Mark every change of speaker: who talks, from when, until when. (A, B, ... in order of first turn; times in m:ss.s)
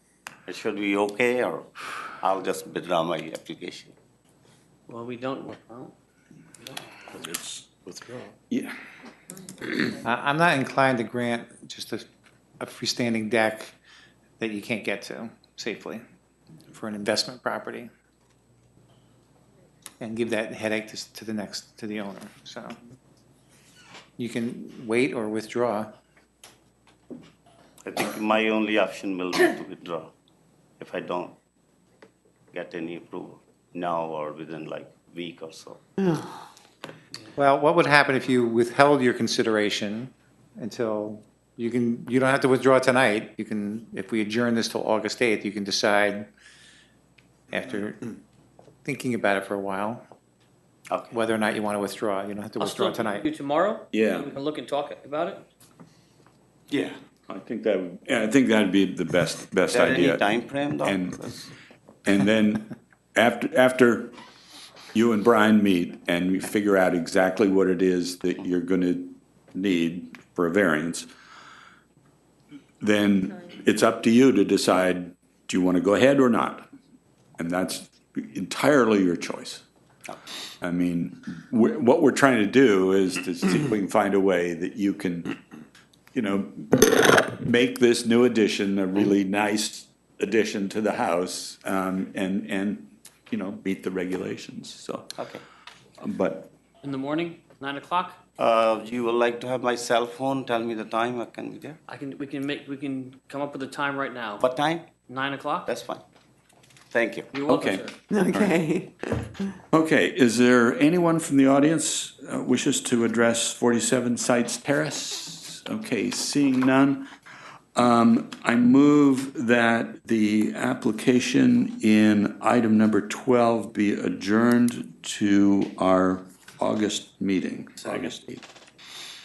0:00.5-0:01.7 A
0:02.2-0:03.9 A
0:04.9-0:05.9 B
0:10.0-0:12.0 C
0:12.6-0:13.7 C
0:14.4-0:16.0 C
0:16.7-0:17.9 C
0:20.0-0:22.8 C
0:24.2-0:25.9 C
0:27.8-0:30.1 A
0:30.8-0:31.3 A
0:32.5-0:35.8 A
0:37.4-0:46.3 C
0:47.5-0:48.2 C
0:48.8-0:50.0 C
0:50.9-0:51.2 A
0:51.1-0:53.3 C
0:52.6-0:55.4 B
0:53.9-0:54.3 D
0:57.3-1:00.2 D
0:59.7-1:01.5 A
1:00.8-1:01.2 D
1:02.0-1:04.1 D
1:04.9-1:11.1 D
1:12.8-1:16.6 D
1:17.4-1:19.6 D
1:20.6-1:25.3 D
1:26.1-1:35.1 D
1:35.2-1:35.4 A
1:36.0-1:36.5 D
1:36.8-1:38.2 B
1:38.4-1:41.8 A
1:41.9-1:44.4 B
1:44.4-1:44.9 A
1:45.1-1:45.7 B
1:45.6-1:46.0 A
1:46.9-1:47.3 A
1:47.3-1:48.0 B
1:47.5-1:47.8 D
1:49.7-1:57.1 D
1:57.7-2:08.4 D